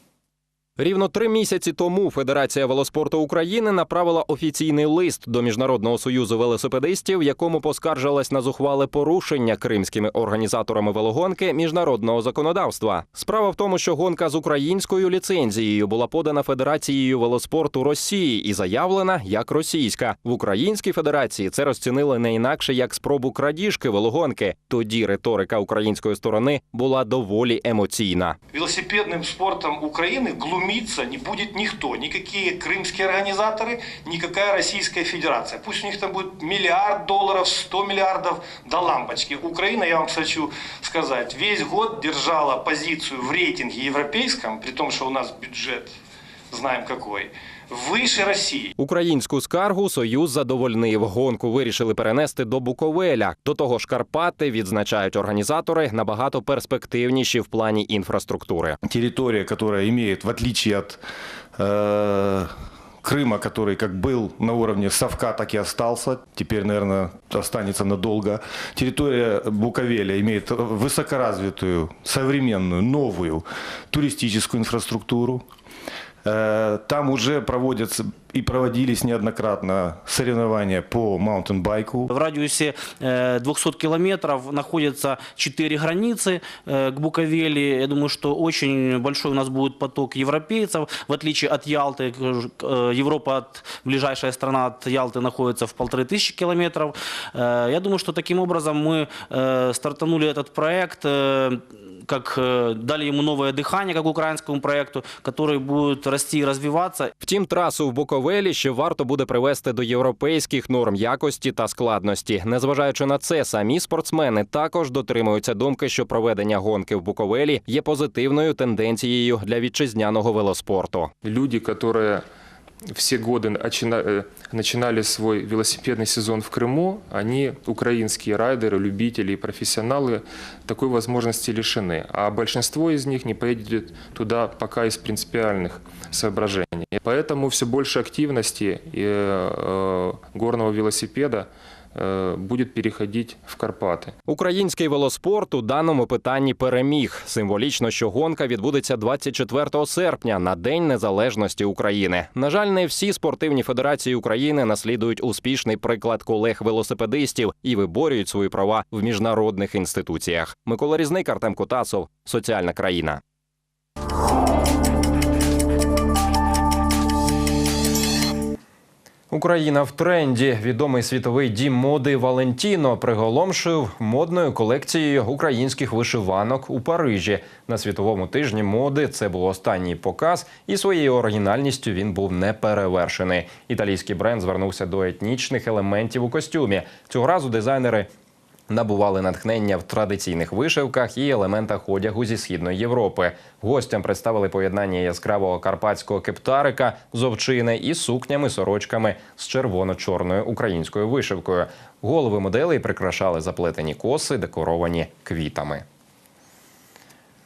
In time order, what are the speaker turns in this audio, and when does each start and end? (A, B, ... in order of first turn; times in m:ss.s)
0:00.8-0:28.4 A
0:28.5-0:45.9 B
0:46.5-0:48.7 B
0:48.8-0:58.8 A
0:58.9-1:01.0 C
1:01.6-1:02.5 C
1:03.0-1:15.4 C
1:16.2-1:22.1 C
1:22.1-1:47.1 D
1:47.2-2:01.1 A
2:01.2-2:02.2 E
2:02.9-2:24.1 E
2:24.3-2:43.2 A
2:49.3-3:08.1 A
3:08.7-3:25.8 A